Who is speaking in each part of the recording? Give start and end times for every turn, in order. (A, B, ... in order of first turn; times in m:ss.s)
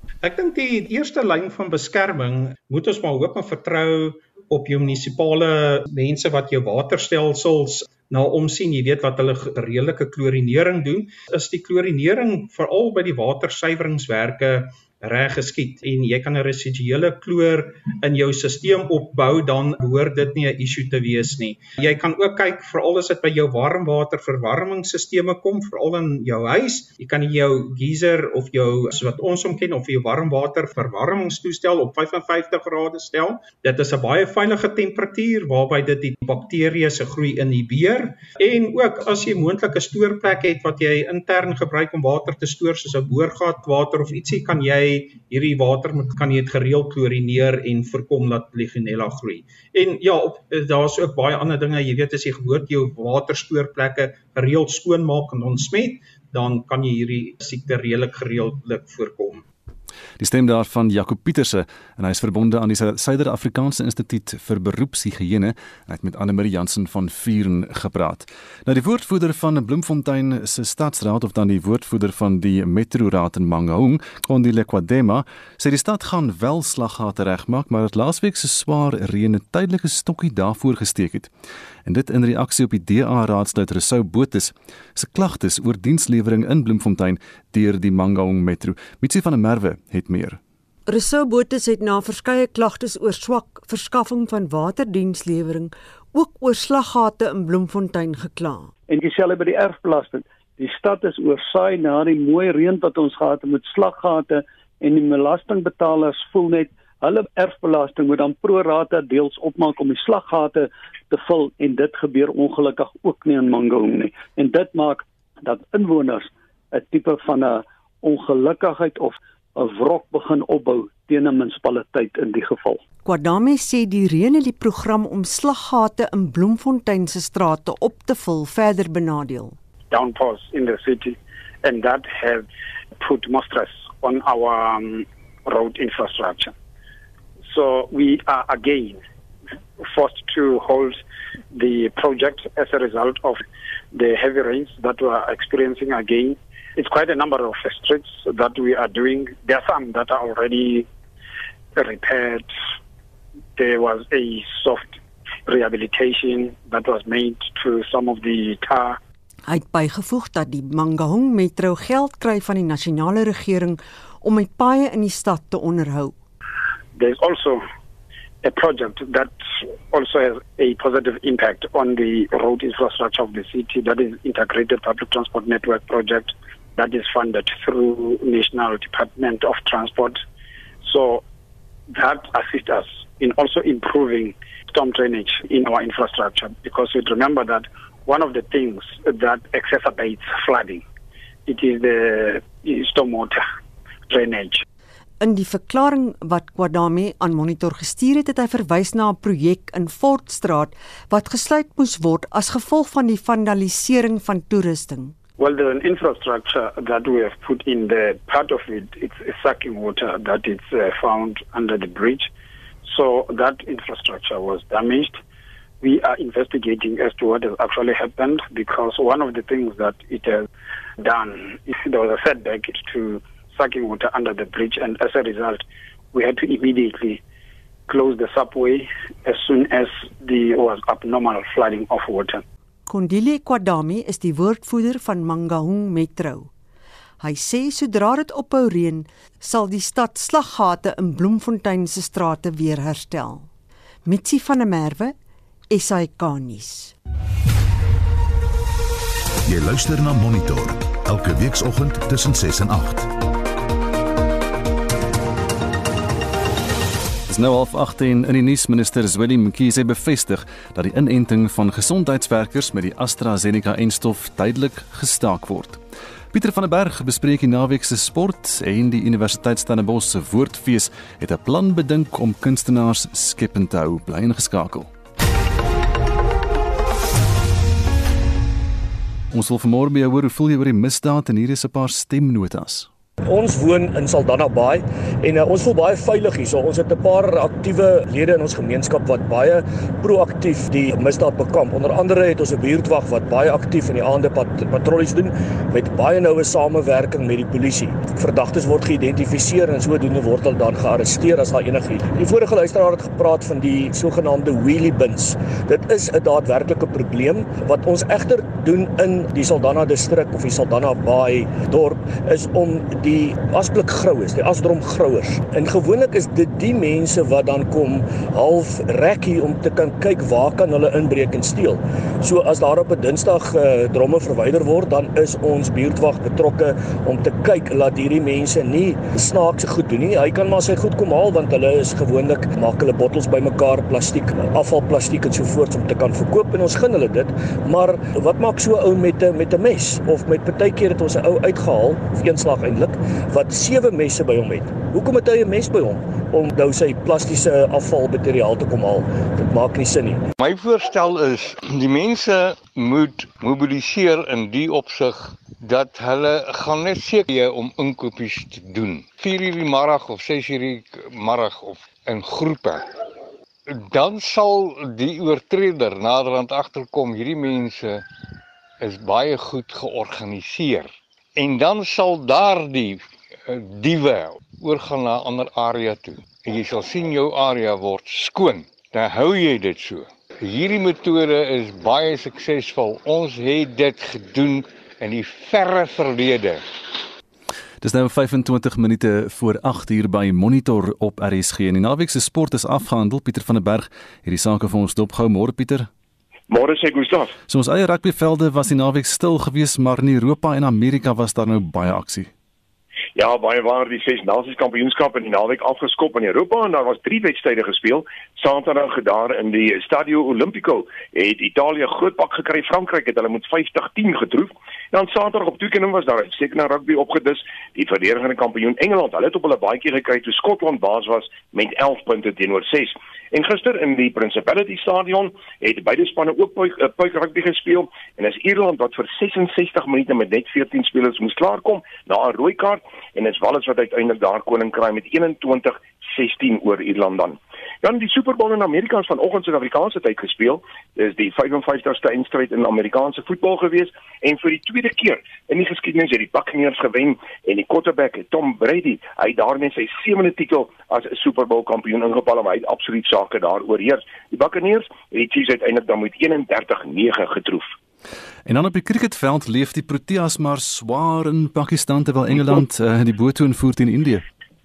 0:00.2-0:59.4 A
1:00.2-1:21.3 B
1:21.8-1:30.4 B
1:30.9-1:38.7 C
1:38.9-2:02.8 D
2:03.0-2:09.6 C
2:09.9-2:12.5 E
2:13.0-2:16.5 E
2:17.4-2:19.0 E
2:19.8-2:21.0 E
2:21.5-2:23.4 E
2:23.9-2:30.9 E
2:31.8-2:32.6 E
2:33.6-2:39.0 E
2:39.5-2:46.1 C
2:46.9-2:47.6 E
2:48.4-3:00.2 E
3:00.8-3:01.2 E
3:01.9-3:10.8 E
3:11.5-3:13.4 E
3:14.1-3:14.6 E
3:15.2-3:25.2 C
3:25.4-3:32.3 E
3:32.8-3:35.2 E
3:35.8-3:40.5 E
3:41.0-3:47.2 E
3:47.9-3:52.4 E
3:52.8-3:56.5 C
3:57.2-4:03.5 C
4:04.0-4:05.1 C
4:05.7-4:06.9 C
4:09.4-4:13.1 F
4:17.3-4:25.8 B
4:26.3-4:34.9 B
4:39.3-4:42.9 B
4:43.3-5:50.2 G
5:50.4-6:02.9 H
6:03.7-6:08.0 H
6:08.8-6:26.9 H
6:27.8-6:35.9 B
6:36.5-6:37.3 I
6:37.5-6:42.3 B
6:43.2-7:37.7 I
7:38.4-7:44.2 B